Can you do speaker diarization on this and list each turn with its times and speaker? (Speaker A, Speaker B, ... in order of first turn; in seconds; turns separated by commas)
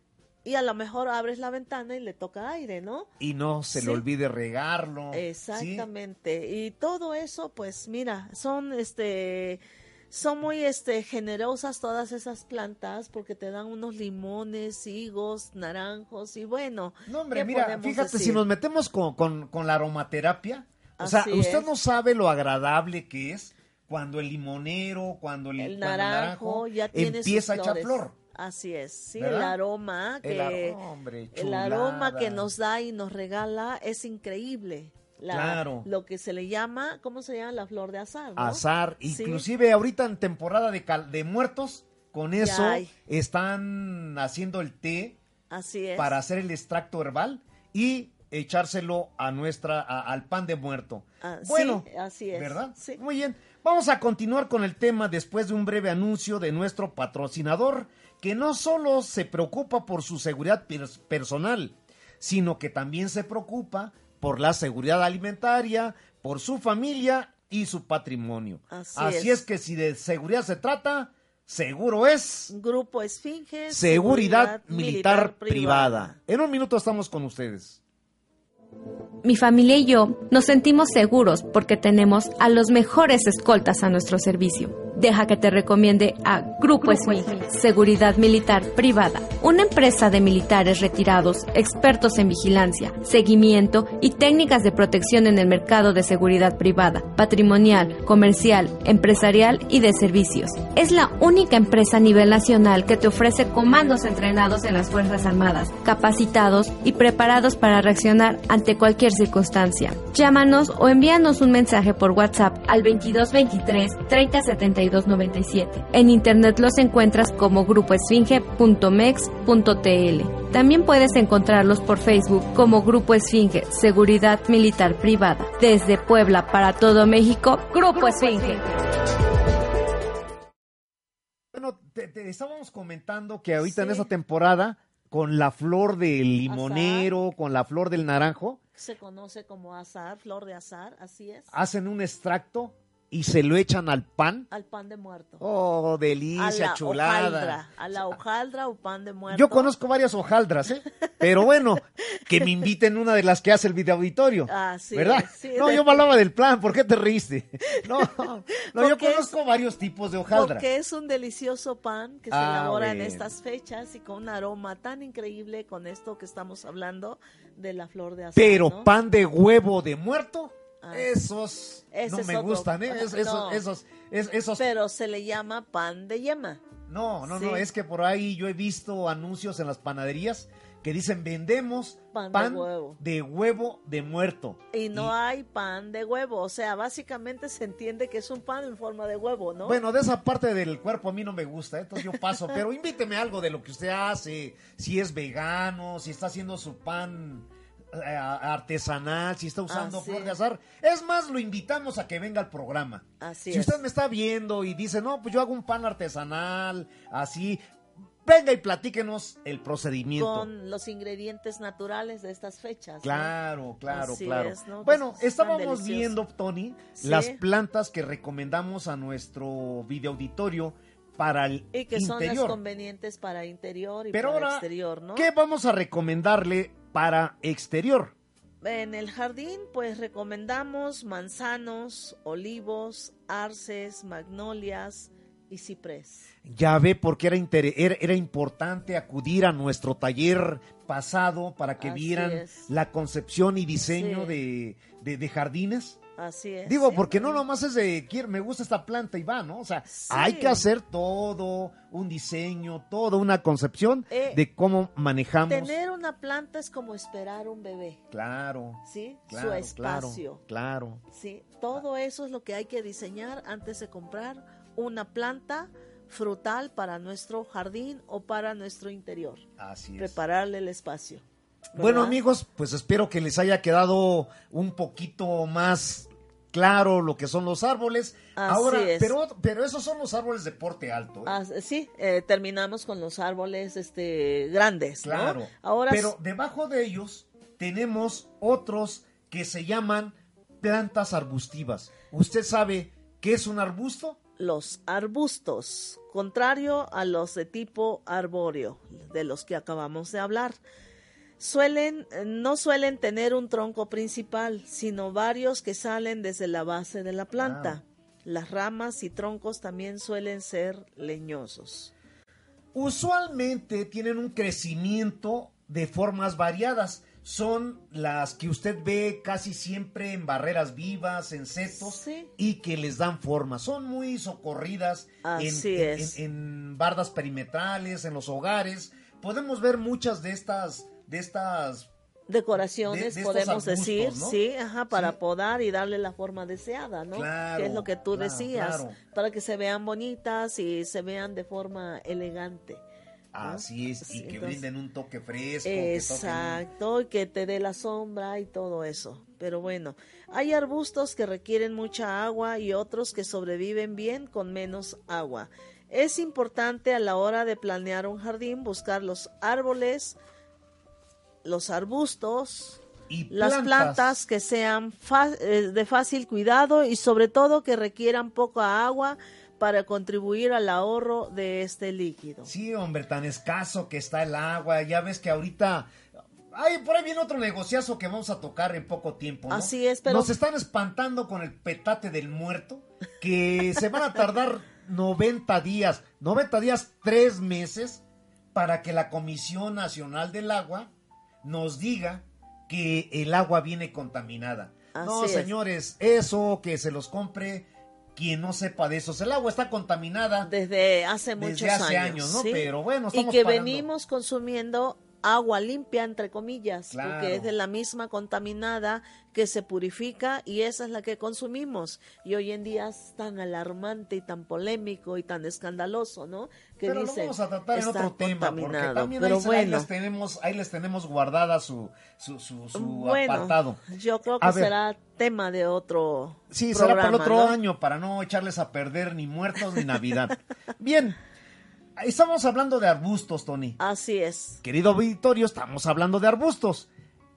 Speaker A: 0.5-3.1, Speaker B: 3.2-5.9, Speaker A: 3.7-4.0, Speaker A: 5.1-18.4, Speaker B: 17.1-28.1, Speaker A: 21.0-21.7, Speaker A: 25.6-30.8, Speaker B: 29.2-29.6, Speaker B: 30.2-32.5, Speaker A: 31.3-39.5, Speaker B: 35.3-35.9, Speaker B: 38.4-45.2, Speaker A: 42.4-42.9, Speaker A: 45.5-46.2, Speaker B: 46.0-72.5, Speaker A: 51.2-53.0, Speaker A: 68.7-69.4, Speaker A: 72.5-76.2, Speaker B: 73.7-77.8, Speaker C: 79.2-128.7, Speaker B: 128.0-128.5, Speaker B: 131.5-138.6, Speaker A: 133.6-134.1, Speaker A: 136.5-137.1, Speaker A: 138.8-141.5, Speaker B: 141.5-144.5, Speaker A: 144.5-145.4, Speaker B: 145.4-148.2, Speaker A: 146.4-149.7, Speaker B: 149.3-160.7, Speaker A: 154.5-156.0, Speaker A: 158.7-159.3, Speaker A: 160.3-168.9, Speaker B: 162.3-163.3, Speaker B: 168.4-174.6, Speaker A: 170.8-171.1, Speaker A: 171.9-173.7, Speaker A: 174.6-176.6, Speaker B: 176.9-185.1, Speaker A: 177.3-177.7, Speaker A: 182.1-183.0, Speaker A: 184.7-189.8, Speaker B: 189.7-207.6, Speaker A: 199.7-200.4, Speaker A: 203.2-203.8, Speaker B: 208.2-210.5, Speaker A: 210.2-213.3, Speaker B: 213.0-222.6, Speaker A: 213.9-216.2, Speaker A: 217.0-217.4, Speaker A: 221.7-225.3, Speaker B: 224.1-228.1, Speaker A: 228.6-236.3, Speaker B: 236.5-246.0, Speaker A: 241.8-242.7, Speaker A: 243.9-244.4, Speaker A: 246.2-247.4, Speaker B: 246.7-255.8, Speaker A: 249.9-250.7, Speaker A: 254.1-254.4, Speaker A: 255.5-258.0, Speaker B: 258.1-261.0, Speaker A: 258.9-260.4, Speaker A: 261.1-269.4, Speaker B: 269.6-270.2, Speaker A: 270.0-271.2, Speaker A: 271.7-272.2, Speaker B: 271.8-281.4, Speaker A: 278.4-279.1, Speaker A: 281.2-286.1, Speaker B: 285.0-294.2, Speaker A: 294.4-300.6, Speaker A: 301.4-311.9, Speaker B: 307.4-307.8, Speaker B: 312.7-331.9, Speaker A: 321.7-322.3, Speaker A: 325.2-326.2, Speaker A: 332.3-342.8, Speaker B: 332.9-334.4, Speaker B: 337.1-339.0, Speaker B: 343.3-346.6, Speaker A: 343.4-344.6, Speaker A: 345.6-360.2, Speaker A: 361.4-372.5, Speaker B: 363.1-364.2, Speaker B: 372.5-375.9, Speaker B: 376.5-388.0, Speaker A: 379.5-380.3, Speaker B: 388.5-390.9, Speaker B: 391.4-400.5, Speaker A: 394.9-395.5, Speaker A: 400.4-419.9, Speaker B: 401.4-403.9, Speaker B: 406.9-407.5, Speaker B: 416.9-423.8, Speaker A: 422.8-427.6, Speaker B: 424.4-424.7, Speaker B: 426.5-431.2, Speaker B: 432.0-433.8, Speaker A: 433.8-434.6, Speaker B: 434.6-436.9